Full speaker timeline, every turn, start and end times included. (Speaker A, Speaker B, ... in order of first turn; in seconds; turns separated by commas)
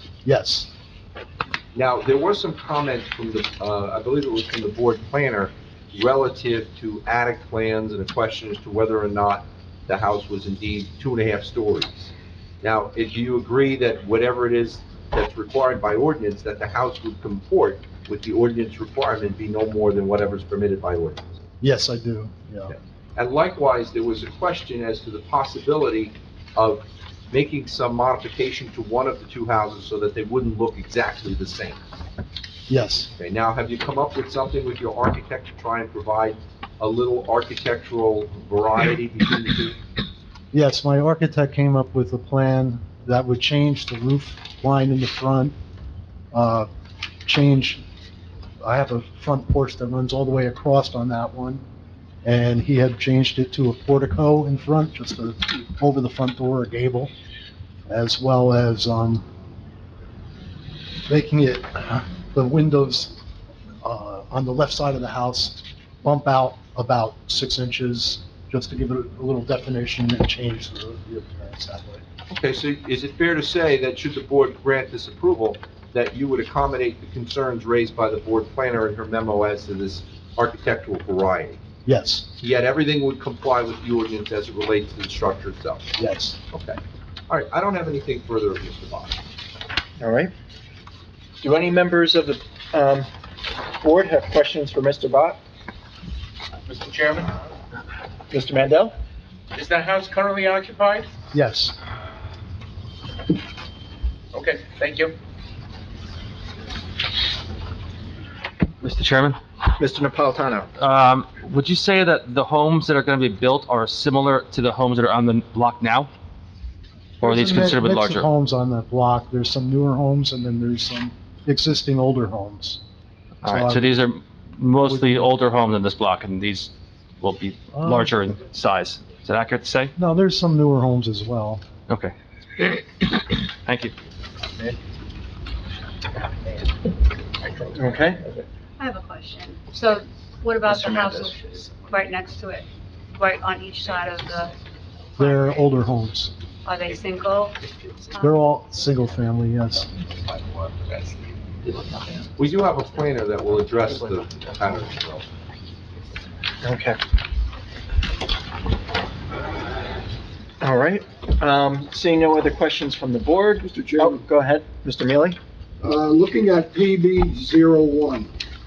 Speaker A: 0.2-0.7, Speaker B: 1.7-21.5, Speaker A: 21.6-22.7, Speaker B: 22.7-31.8, Speaker A: 32.7-33.1, Speaker B: 33.2-39.8, Speaker A: 40.5-45.5, Speaker A: 46.3-46.7, Speaker A: 47.3-47.8, Speaker A: 48.6-51.6, Speaker A: 52.2-57.1, Speaker A: 57.9-59.3, Speaker A: 61.1-63.2, Speaker A: 63.8-72.0, Speaker B: 72.3-81.6, Speaker A: 81.9-82.3, Speaker B: 82.4-85.9, Speaker A: 86.0-86.4, Speaker B: 86.5-89.2, Speaker C: 90.0-90.3, Speaker C: 91.4-93.1, Speaker C: 93.8-95.4, Speaker D: 96.7-97.3, Speaker C: 98.3-98.9, Speaker D: 99.5-101.1, Speaker A: 101.3-101.8, Speaker D: 104.3-105.2, Speaker E: 108.8-109.4, Speaker C: 109.8-110.7, Speaker E: 110.8-116.1, Speaker A: 117.2-122.8, Speaker E: 117.2-118.3, Speaker A: 123.4-124.0, Speaker E: 123.4-129.9, Speaker A: 124.8-125.3, Speaker A: 127.8-128.2, Speaker A: 130.0-131.7, Speaker E: 131.9-133.1, Speaker E: 133.7-133.9, Speaker C: 137.7-138.2, Speaker F: 138.8-144.5, Speaker F: 145.2-145.7, Speaker A: 145.2-146.3, Speaker F: 146.7-147.6, Speaker F: 148.1-148.4, Speaker A: 148.2-149.9, Speaker B: 152.4-155.3, Speaker C: 156.6-157.0, Speaker C: 160.6-165.4, Speaker G: 163.7-164.2, Speaker G: 165.8-168.3